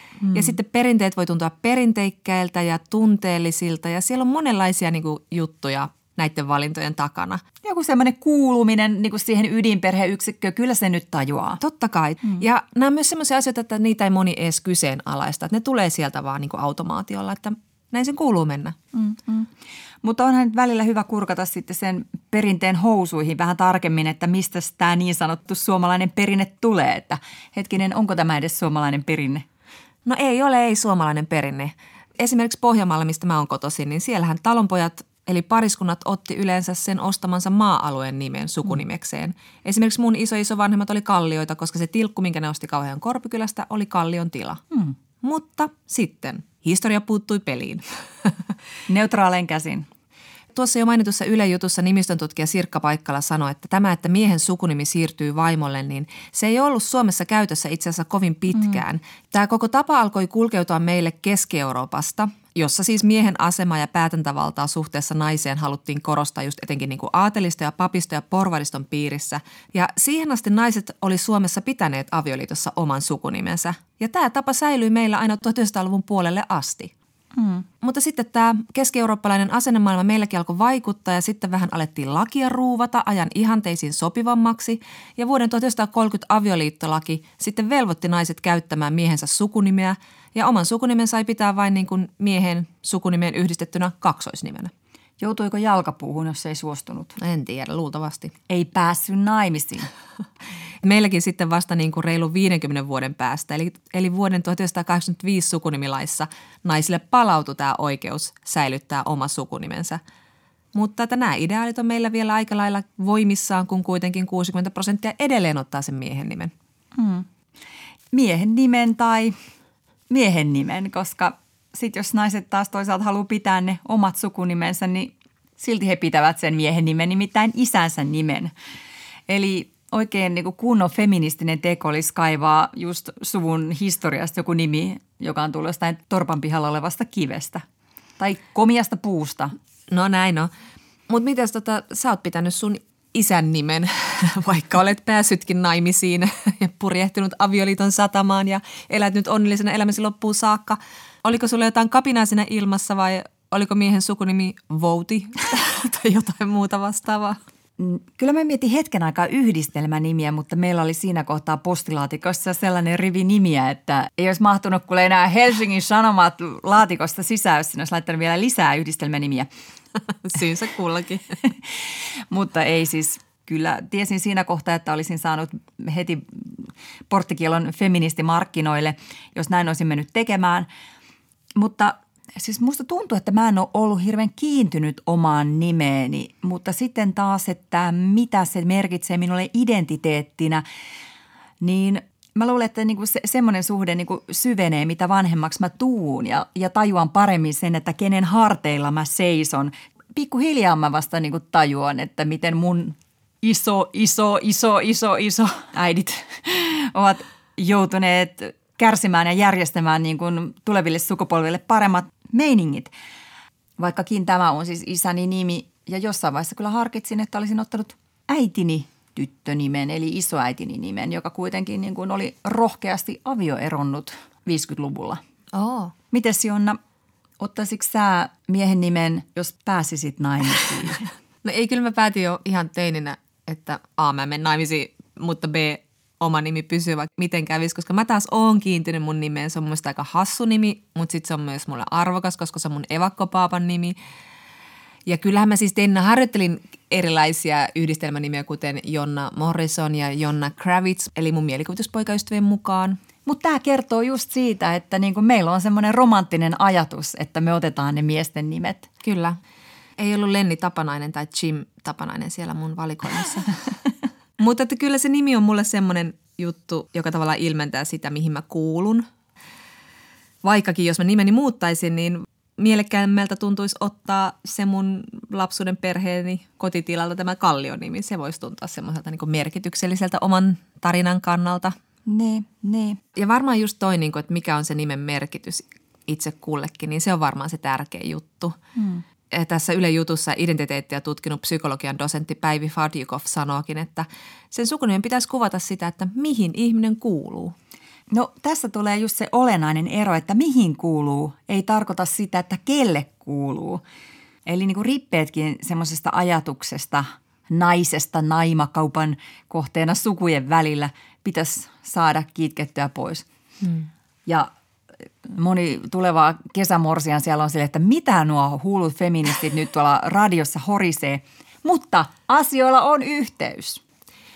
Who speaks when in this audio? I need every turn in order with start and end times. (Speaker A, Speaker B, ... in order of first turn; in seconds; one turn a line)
Speaker A: 0.2-0.6
Speaker B: 0.3-7.4
Speaker A: 7.6-11.6
Speaker B: 11.6-18.8
Speaker A: 18.9-19.5
Speaker A: 20.0-29.4
Speaker B: 30.1-44.6
Speaker B: 45.2-48.3
Speaker A: 48.9-49.9
Speaker B: 50.5-76.9
Speaker A: 58.5-58.8
Speaker A: 77.3-77.6
Speaker B: 77.8-94.7
Speaker A: 95.2-97.1
Speaker B: 97.2-98.3
Speaker A: 98.5-99.9
Speaker B: 100.8-110.0
Speaker B: 110.7-116.5
Speaker A: 117.0-117.3
Speaker A: 118.1-119.3
Speaker A: 120.1-128.5
Speaker A: 129.3-137.6
Speaker A: 138.2-139.5
Speaker B: 139.9-140.5
Speaker B: 141.1-157.4
Speaker A: 157.8-169.5
Speaker B: 170.2-171.4
Speaker A: 171.8-180.7
Speaker A: 181.6-190.6
Speaker A: 191.6-212.9
Speaker A: 213.8-225.2
Speaker B: 225.5-225.9
Speaker A: 226.1-226.8
Speaker A: 227.4-231.0
Speaker B: 231.4-243.9
Speaker B: 245.1-253.0
Speaker A: 253.2-258.9
Speaker B: 259.0-259.4
Speaker B: 260.0-263.6
Speaker B: 264.4-269.1
Speaker B: 270.4-281.8
Speaker A: 282.1-283.0
Speaker B: 283.1-288.6
Speaker A: 288.8-289.0
Speaker B: 289.3-297.6
Speaker A: 298.1-303.8
Speaker A: 304.4-313.3
Speaker A: 315.2-323.8